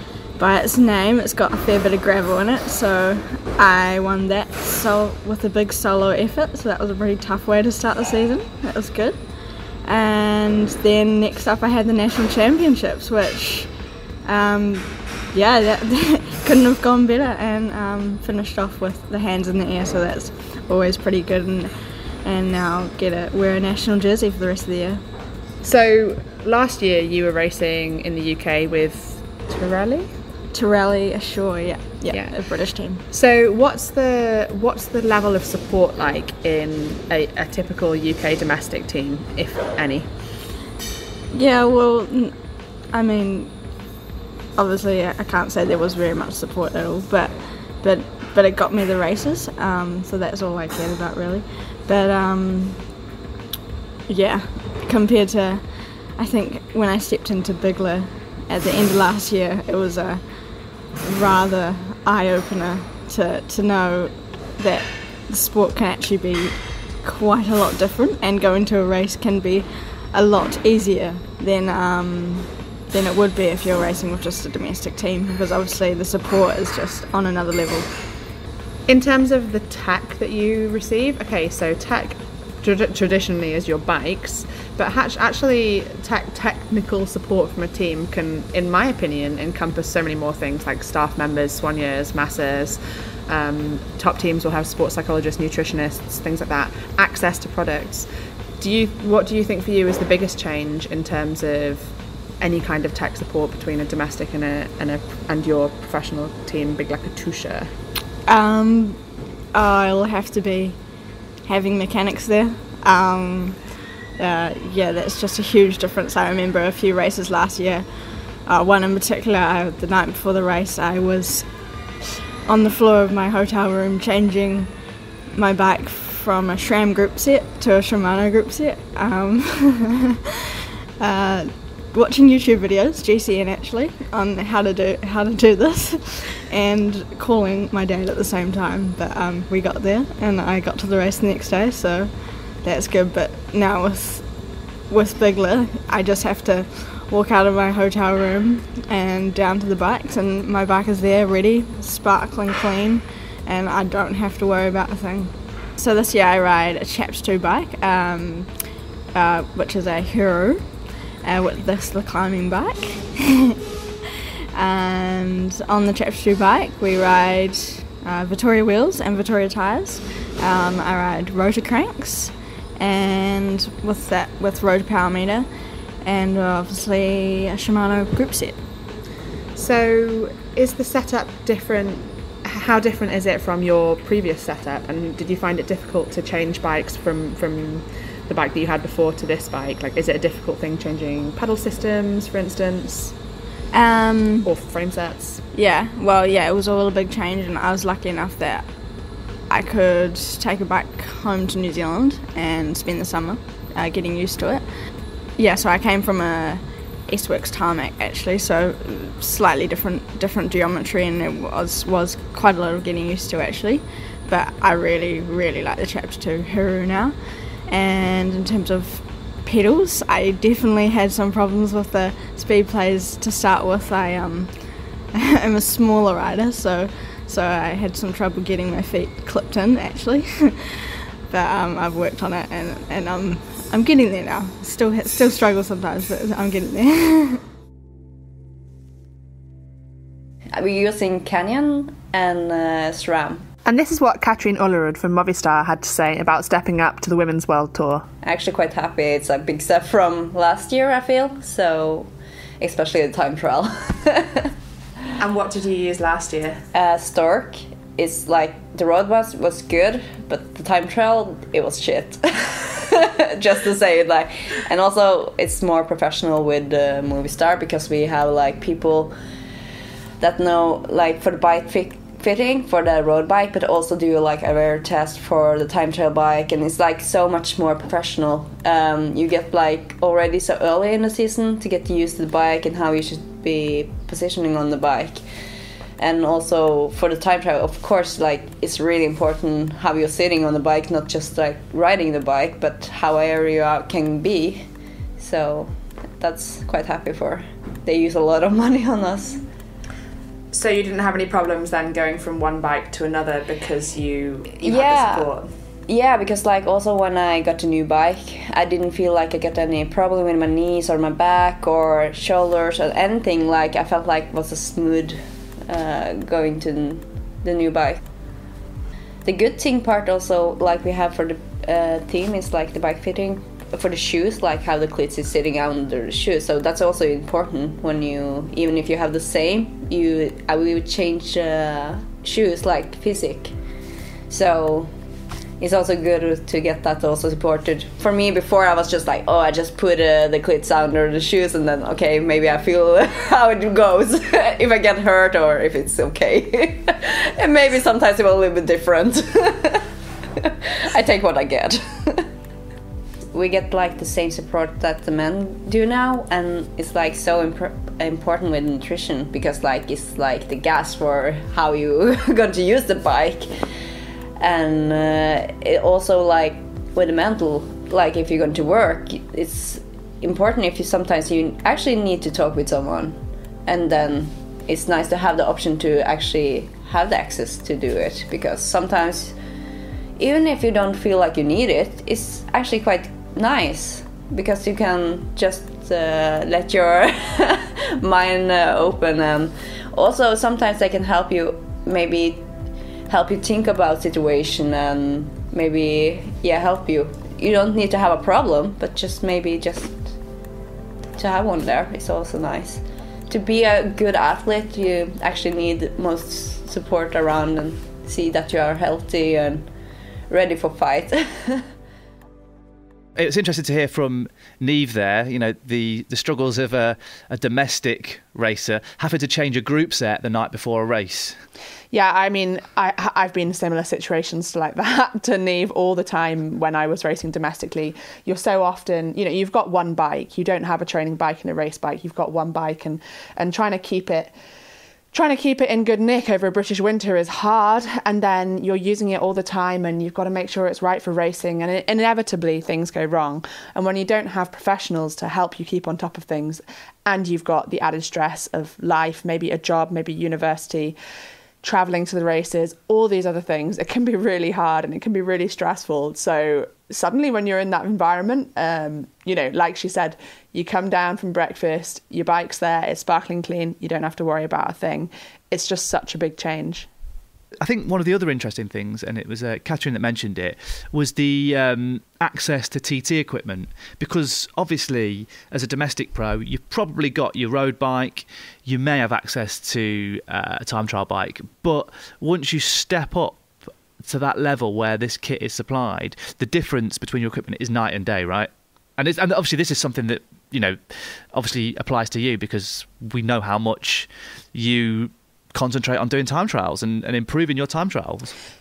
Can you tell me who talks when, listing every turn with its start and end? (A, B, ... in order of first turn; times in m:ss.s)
0:00.4-0:09.3 A
0:09.8-0:13.7 A
0:14.2-0:25.0 A
0:25.6-0:30.1 B
0:30.5-0:33.0 A
0:32.1-0:32.4 B
0:33.1-0:40.1 B
0:41.3-0:42.4 A
0:42.9-0:43.5 A
0:44.5-0:52.9 A
0:54.1-1:17.9 A
1:18.9-1:38.1 B
1:38.6-1:47.7 B
1:48.2-1:50.8 A
1:51.4-2:01.5 A
2:02.4-2:04.7 A
2:05.3-2:10.2 A
2:11.0-2:43.6 A
2:44.5-2:55.5 A
2:56.0-2:58.6 A
2:59.5-3:13.1 B
3:13.7-3:14.5 A
3:14.4-3:15.4 B
3:15.5-3:18.7 A
3:19.5-3:24.7 A
3:25.4-3:57.4 A
4:00.5-4:03.4 C
4:03.6-4:08.1 B
4:08.2-4:14.5 C
4:15.2-4:16.6 B
4:16.7-4:29.2 C
4:30.2-4:45.2 C
4:46.0-4:54.7 C
4:55.2-4:59.4 C
5:00.5-5:05.5 B
5:04.6-5:05.3 C
5:05.9-5:18.0 C
5:19.2-5:33.5 C
5:34.3-5:34.9 C
5:35.6-5:49.9 C
5:50.4-5:52.3 C
5:53.3-6:03.5 C
6:04.4-6:19.4 C
6:20.2-6:32.5 C
6:33.1-6:40.2 C
6:41.2-6:49.7 C
6:50.3-6:51.7 C
6:53.2-7:01.4 D
7:01.9-7:14.3 B
7:15.1-7:31.0 B
7:31.6-7:46.9 B
7:47.6-8:03.4 D
8:04.0-8:18.3 D